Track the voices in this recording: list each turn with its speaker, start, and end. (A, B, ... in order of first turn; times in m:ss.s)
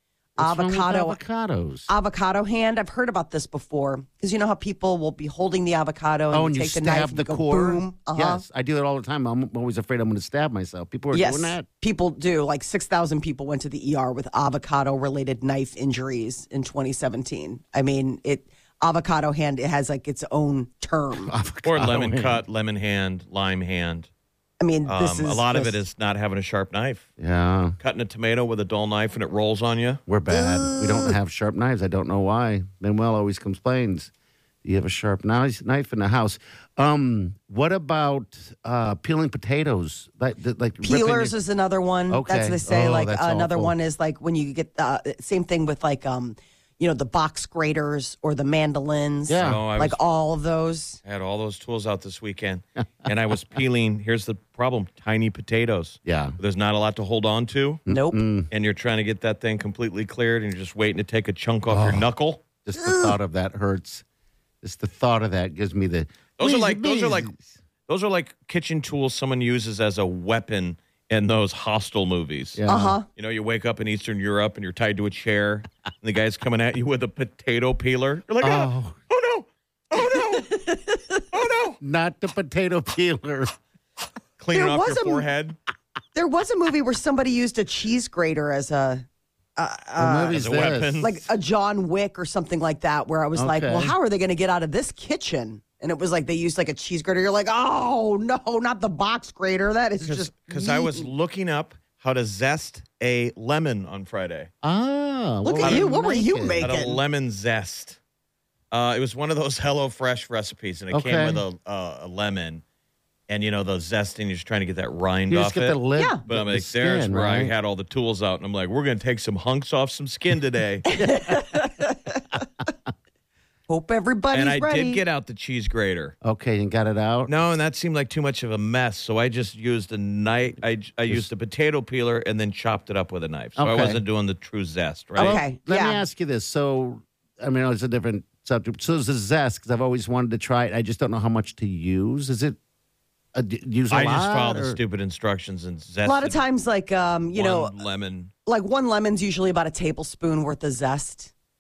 0:00.4-0:01.9 A
0:00.4-0:01.2 B
0:01.9-0:08.4 B
0:06.3-0:11.6 A
0:11.1-0:21.3 B
0:21.2-0:22.4 A
0:21.6-0:24.1 C
0:24.6-0:25.8 B
0:24.8-0:27.1 C
0:27.2-0:27.8 A
0:27.8-0:30.0 C
0:30.1-0:34.1 A
0:30.3-0:31.2 B
0:34.6-0:41.3 A
0:40.8-0:51.0 B
0:42.1-0:43.7 A
0:49.3-0:49.6 A
0:49.4-0:50.0 C
0:51.0-0:57.8 C
0:56.0-0:56.4 A
0:57.9-0:58.2 B
0:57.9-0:58.5 A
0:58.5-1:02.4 C
1:01.7-1:02.1 A
1:02.6-1:04.0 A
1:02.7-1:03.2 B
1:04.6-1:07.6 A
1:06.4-1:07.3 C
1:07.9-1:12.6 C
1:12.6-1:13.0 A
1:12.7-1:13.1 B
1:13.1-1:20.6 C
1:18.4-1:19.0 A
1:20.3-1:21.2 B
1:21.3-1:21.8 C
1:21.8-1:23.5 A
1:24.4-1:25.6 C
1:24.5-1:25.3 B
1:26.1-1:29.0 B
1:29.6-1:30.4 B
1:30.0-1:31.0 A
1:30.3-1:31.2 C
1:31.0-1:41.1 B
1:33.3-1:33.9 A
1:40.0-1:44.5 C
1:44.6-1:46.7 A
1:45.4-1:47.0 B
1:46.6-1:48.0 C
1:48.7-1:52.6 C
1:50.9-1:51.4 A
1:53.3-1:55.8 C
1:55.3-1:57.5 A
1:56.0-1:56.2 B
1:56.3-2:00.9 C
2:00.9-2:02.2 B
2:01.0-2:01.3 A
2:03.7-2:05.0 B
2:04.3-2:06.2 C
2:06.2-2:07.3 A
2:07.2-2:15.4 C
2:13.6-2:14.0 A
2:15.2-2:22.6 A
2:15.2-2:16.0 B
2:23.3-2:24.8 A
2:23.9-2:26.4 C
2:26.0-2:27.8 B
2:27.3-2:28.3 C
2:28.4-2:31.3 B